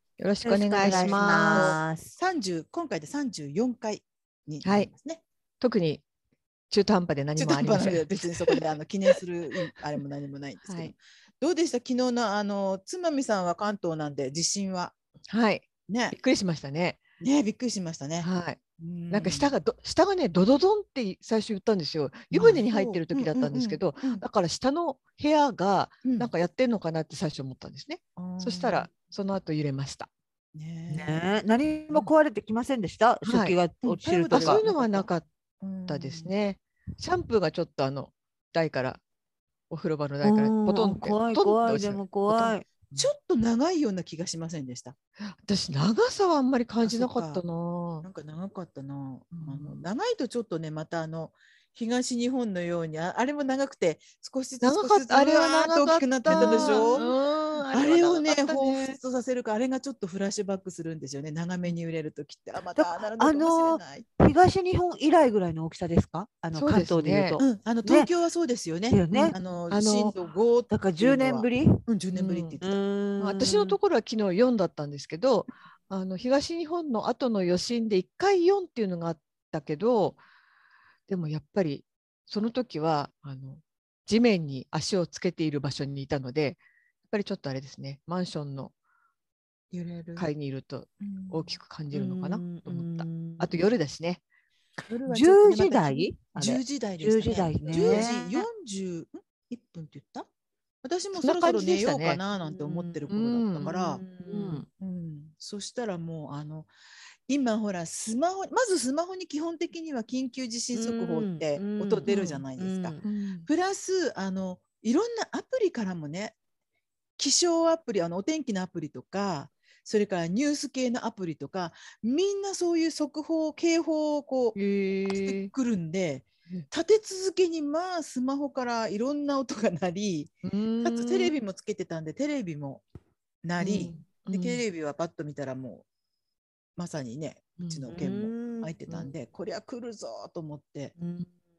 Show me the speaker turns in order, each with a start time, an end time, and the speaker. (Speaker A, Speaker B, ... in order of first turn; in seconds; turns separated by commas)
Speaker A: 0.2-1.8, Speaker B: 0.4-2.1, Speaker C: 0.8-5.2, Speaker A: 4.6-4.9, Speaker A: 5.6-6.0, Speaker A: 6.7-8.6, Speaker C: 7.3-14.9, Speaker A: 10.7-10.9, Speaker A: 15.3-17.0, Speaker C: 15.9-16.1, Speaker C: 17.2-19.5, Speaker A: 18.2-18.6, Speaker A: 19.1-30.1, Speaker C: 22.3-24.2, Speaker C: 26.0-26.3, Speaker C: 28.1-28.9, Speaker C: 30.5-31.2, Speaker B: 30.9-34.6, Speaker A: 33.2-33.6, Speaker C: 33.8-35.1, Speaker A: 34.3-35.3, Speaker C: 35.6-36.3, Speaker A: 35.9-39.0, Speaker A: 39.7-42.5, Speaker B: 40.2-42.7, Speaker C: 42.9-44.9, Speaker A: 45.3-48.0, Speaker C: 46.8-47.4, Speaker C: 48.0-57.1, Speaker A: 49.3-49.8, Speaker A: 54.6-59.0, Speaker B: 56.3-57.0, Speaker C: 57.7-64.0, Speaker B: 62.8-68.1, Speaker A: 66.5-67.4, Speaker C: 67.4-72.8, Speaker B: 68.9-69.3, Speaker A: 69.1-70.1, Speaker B: 70.7-71.8, Speaker A: 72.1-72.6, Speaker B: 72.6-73.8, Speaker A: 73.2-80.2, Speaker A: 81.1-88.7, Speaker C: 89.7-90.3, Speaker A: 90.2-94.2, Speaker C: 91.0-91.6, Speaker B: 91.9-93.5, Speaker C: 94.8-100.3, Speaker B: 95.1-98.5, Speaker A: 97.7-98.1, Speaker C: 100.8-104.0, Speaker A: 101.2-102.2, Speaker B: 102.3-103.0, Speaker A: 103.1-104.6, Speaker B: 103.7-104.7, Speaker C: 104.8-106.7, Speaker C: 107.3-116.3, Speaker B: 110.7-113.0, Speaker A: 113.0-113.5, Speaker C: 117.2-132.8, Speaker A: 124.5-125.5, Speaker A: 130.4-131.3, Speaker C: 133.4-135.8, Speaker A: 133.6-134.6, Speaker C: 136.8-140.9, Speaker A: 137.6-137.9, Speaker B: 137.9-138.7, Speaker B: 141.0-141.3